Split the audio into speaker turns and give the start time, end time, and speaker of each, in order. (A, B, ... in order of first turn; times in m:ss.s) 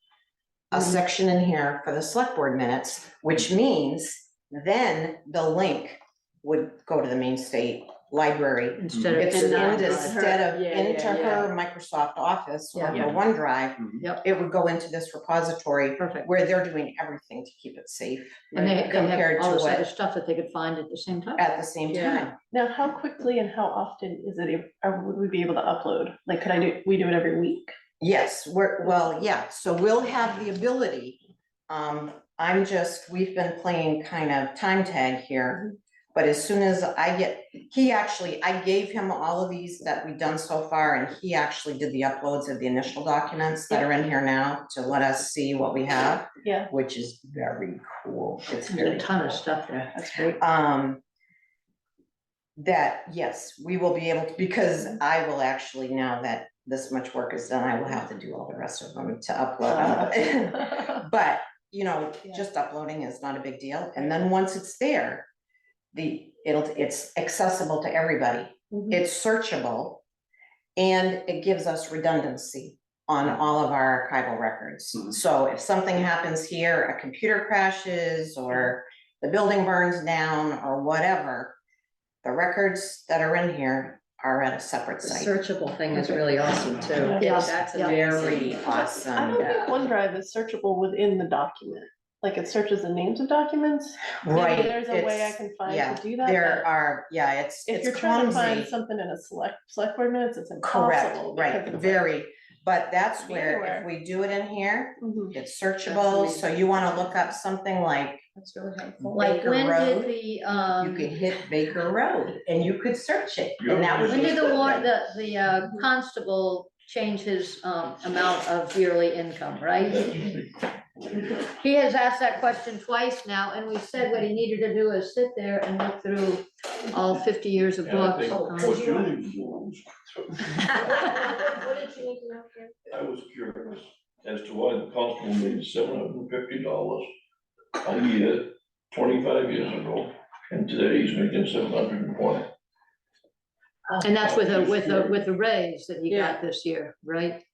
0:00.7-0:19.9 A
0:08.8-0:10.2 B
0:09.2-0:11.5 C
0:12.7-0:13.1 B
0:16.0-0:16.3 B
0:18.5-0:21.4 B
0:21.4-0:22.4 A
0:21.9-0:22.2 C
0:22.5-0:27.7 D
0:28.0-0:49.5 A
0:46.4-0:46.7 D
0:48.7-0:49.9 B
0:49.9-0:50.4 D
0:50.4-0:51.0 A
0:52.6-1:05.3 A
1:05.9-1:10.0 A
1:10.8-1:21.6 A
1:22.2-1:25.3 A
1:25.0-1:28.6 C
1:27.0-1:27.5 D
1:27.2-1:28.3 B
1:27.8-1:29.5 A
1:29.2-1:36.7 D
1:29.3-1:29.8 C
1:34.2-1:38.7 A
1:37.7-1:42.0 D
1:40.6-1:48.2 A
1:43.2-1:43.9 D
1:45.0-1:45.4 D
1:45.9-1:47.2 C
1:48.4-1:49.2 C
1:49.1-1:50.1 A
1:49.1-1:51.1 B
1:50.8-1:54.9 A
1:53.6-1:54.7 E
1:54.0-2:00.1 B
1:59.9-2:01.3 E
2:01.5-2:09.0 B
2:07.8-2:10.7 E
2:11.5-2:12.4 A
2:12.9-2:17.1 E
2:17.8-2:22.5 E
2:24.0-2:27.4 B
2:24.2-2:24.8 E
2:26.1-2:26.4 C